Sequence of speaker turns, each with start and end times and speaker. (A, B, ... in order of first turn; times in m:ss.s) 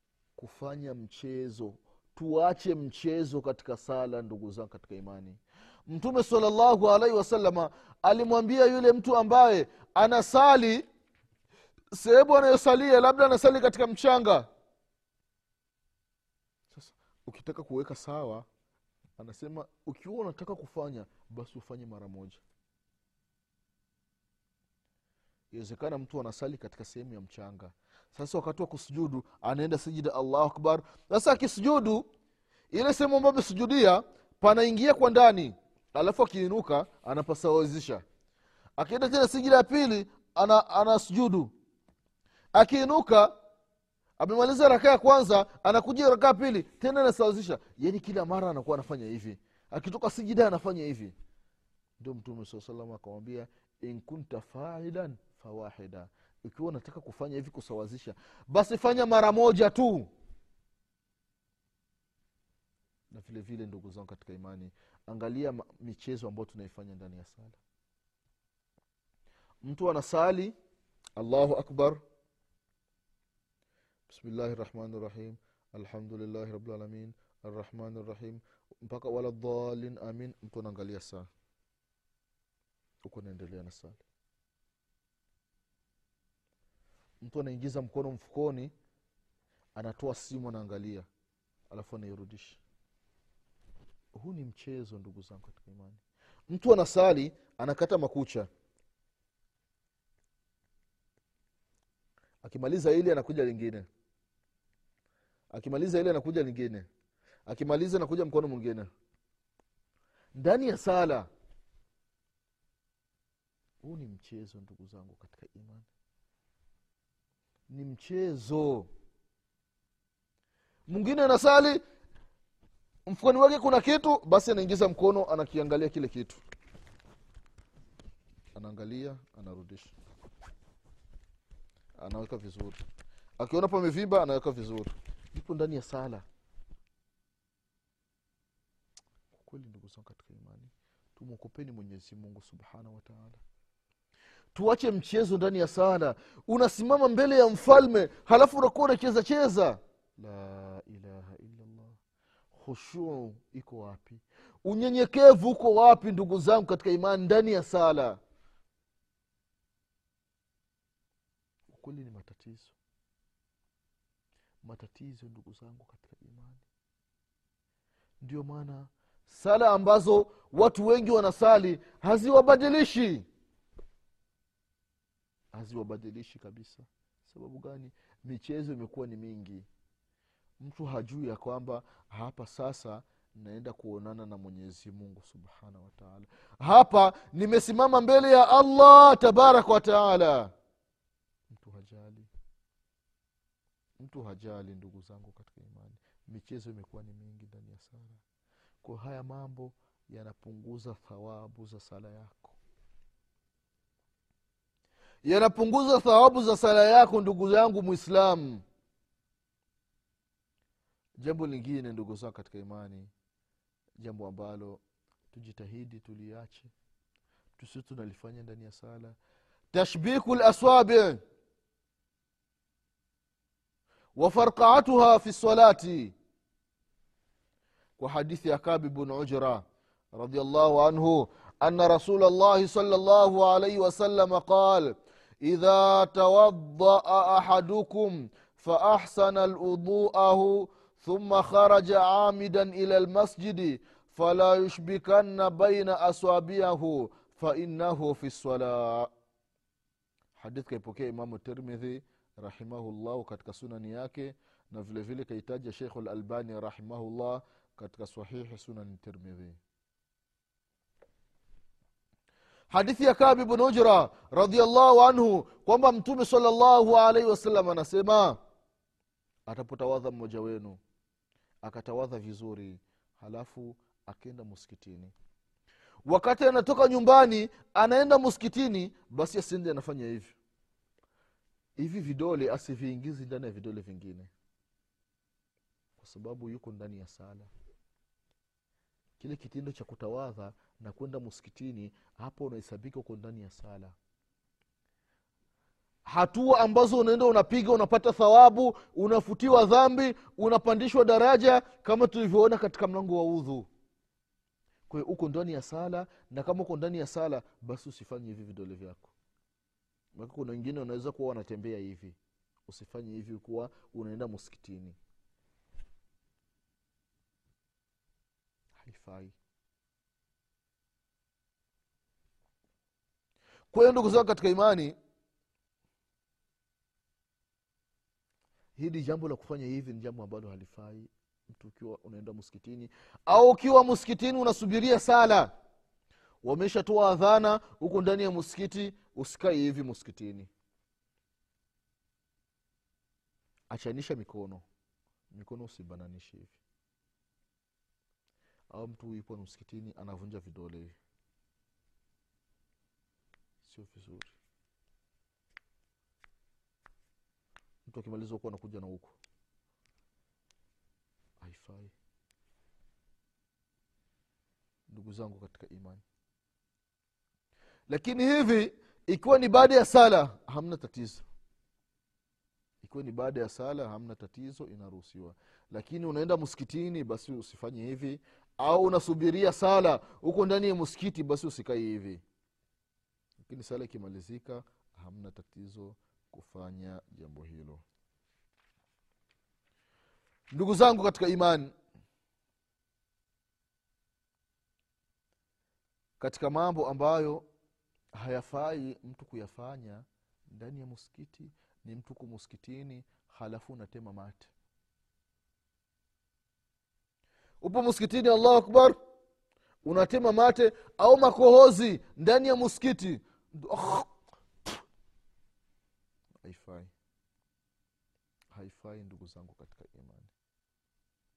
0:00.4-0:10.8 A
0:11.9-0:14.5 A
0:16.7-0:18.5 A
0:19.2-0:22.4 A
0:25.5-0:32.0 A
0:32.7-0:38.0 A
0:38.8-0:41.5 A
0:42.5-0:43.3 A
0:44.2-0:51.1 A
0:52.0-1:00.1 A
1:03.1-1:07.6 A
1:09.6-1:10.5 A
1:11.2-1:12.0 A
1:14.1-1:21.2 A
1:23.0-1:24.0 A
1:27.2-1:28.7 A
1:29.8-1:31.0 A
1:31.7-1:32.6 A
1:34.1-1:38.5 A
1:42.4-1:43.9 A
1:45.5-1:46.9 A
1:47.4-1:48.9 A
1:50.3-1:51.3 A
1:53.8-1:55.9 A
1:57.7-1:58.9 A
2:00.9-2:01.8 A
2:03.1-2:06.4 A
2:08.5-2:09.9 A
2:12.0-2:12.8 A
2:13.4-2:16.2 A
2:19.3-2:23.4 A
2:24.5-2:32.0 A
2:32.5-2:38.2 A
2:41.7-2:42.7 A
2:44.6-2:46.6 A
2:48.2-2:53.3 A
2:55.5-2:59.7 A
3:00.6-3:10.5 A
3:11.5-3:12.3 A
3:14.0-3:18.2 A
3:18.8-3:22.6 A
3:25.2-3:28.6 A
3:31.2-3:33.1 A
3:34.0-3:36.7 A
3:37.6-3:39.2 A
3:39.7-3:41.2 A
3:44.2-3:46.1 A
3:48.0-4:09.1 A
4:10.4-4:19.6 A
4:22.7-4:28.4 A
4:29.5-4:30.8 A
4:31.6-4:35.1 A
4:36.0-4:40.4 A
4:41.8-4:44.3 A
4:46.0-4:47.5 A
4:49.2-4:53.9 A
4:56.0-5:03.7 A
5:04.9-5:09.1 A
5:10.1-5:15.0 A
5:18.8-5:19.4 A
5:23.7-5:24.9 A
5:28.8-5:35.5 A
5:36.4-5:40.5 A
5:43.7-5:44.6 A
5:45.3-5:46.6 A
5:48.7-5:51.0 A
5:53.6-5:54.4 A
5:57.8-5:59.2 A
6:01.4-6:01.9 A
6:04.9-6:06.0 A
6:07.9-6:11.2 A
6:12.8-6:22.2 A
6:23.4-6:27.8 A
6:30.5-6:31.7 A
6:36.2-6:37.4 A
6:38.1-6:44.5 A
6:47.6-6:48.9 A
6:49.8-6:54.1 A
6:56.4-6:56.9 A
6:58.5-7:00.3 A